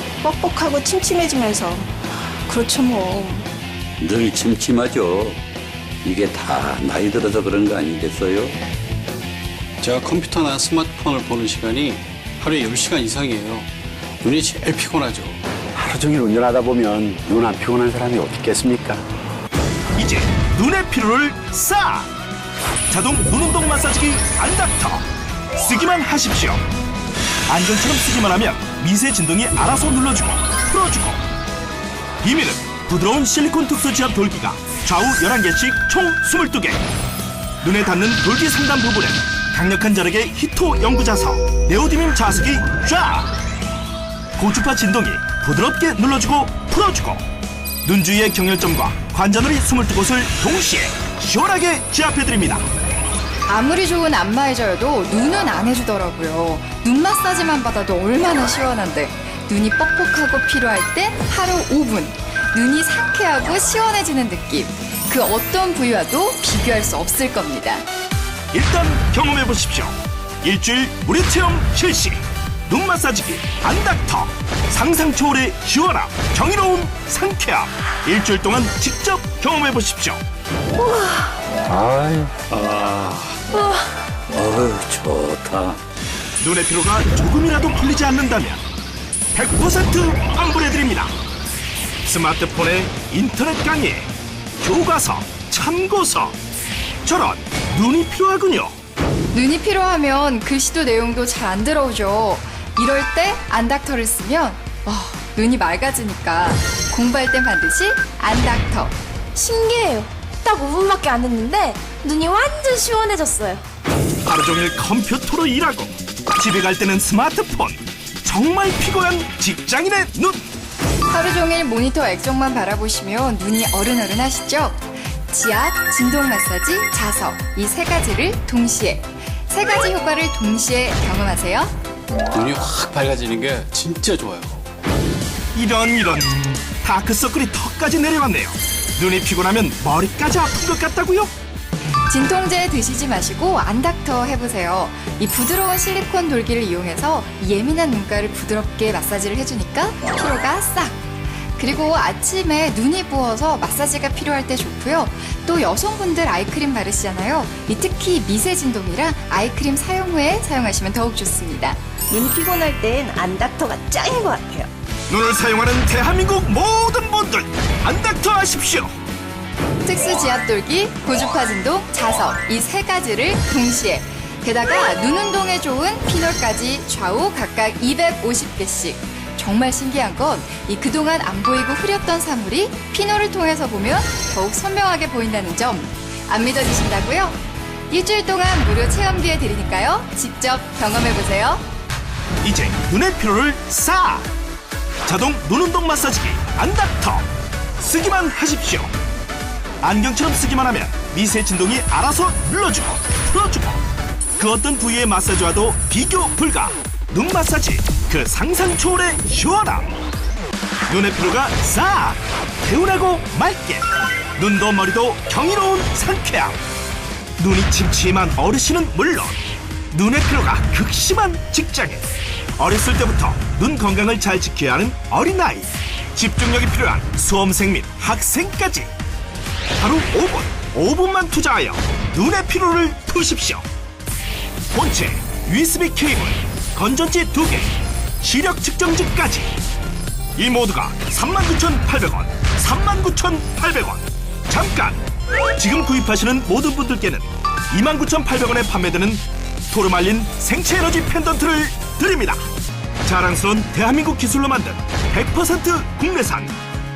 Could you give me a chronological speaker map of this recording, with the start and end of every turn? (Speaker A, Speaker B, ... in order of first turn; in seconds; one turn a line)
Speaker A: 0.2-3.5
Speaker B: 4.0-5.4
Speaker B: 6.0-8.6
Speaker C: 9.8-13.7
Speaker C: 14.2-15.4
Speaker D: 15.8-19.0
Speaker E: 19.9-22.1
Speaker E: 22.9-26.6
Speaker E: 27.5-31.2
Speaker E: 32.2-36.8
Speaker E: 37.6-43.3
Speaker E: 44.4-47.2
Speaker E: 47.8-52.7
Speaker F: 53.5-67.8
Speaker E: 68.5-80.2
Speaker G: 80.8-81.4
Speaker B: 81.6-83.4
Speaker G: 83.5-83.9
Speaker B: 84.3-85.8
Speaker E: 86.4-88.6
Speaker E: 89.3-91.1
Speaker E: 92.0-94.1
Speaker E: 94.6-96.3
Speaker E: 97.0-98.7
Speaker F: 99.3-109.0
Speaker G: 109.3-113.6
Speaker E: 114.2-120.5
Speaker F: 121.1-131.7
Speaker C: 132.3-134.6
Speaker E: 135.5-141.3
Speaker F: 142.1-151.0
Speaker F: 151.6-161.8
Speaker A: 162.1-164.7
Speaker E: 165.1-168.9
Speaker F: 169.8-187.4
Speaker F: 187.9-191.6
Speaker E: 192.4-194.3
Speaker E: 195.1-197.3
Speaker E: 197.8-198.9
Speaker E: 199.8-203.8
Speaker E: 204.4-209.9
Speaker E: 210.9-216.6
Speaker E: 217.4-219.4
Speaker E: 219.9-222.1
Speaker E: 222.6-228.9
Speaker E: 229.8-233.7
Speaker E: 234.7-239.5
Speaker E: 240.3-245.0
Speaker E: 245.6-252.4
Speaker E: 253.0-256.5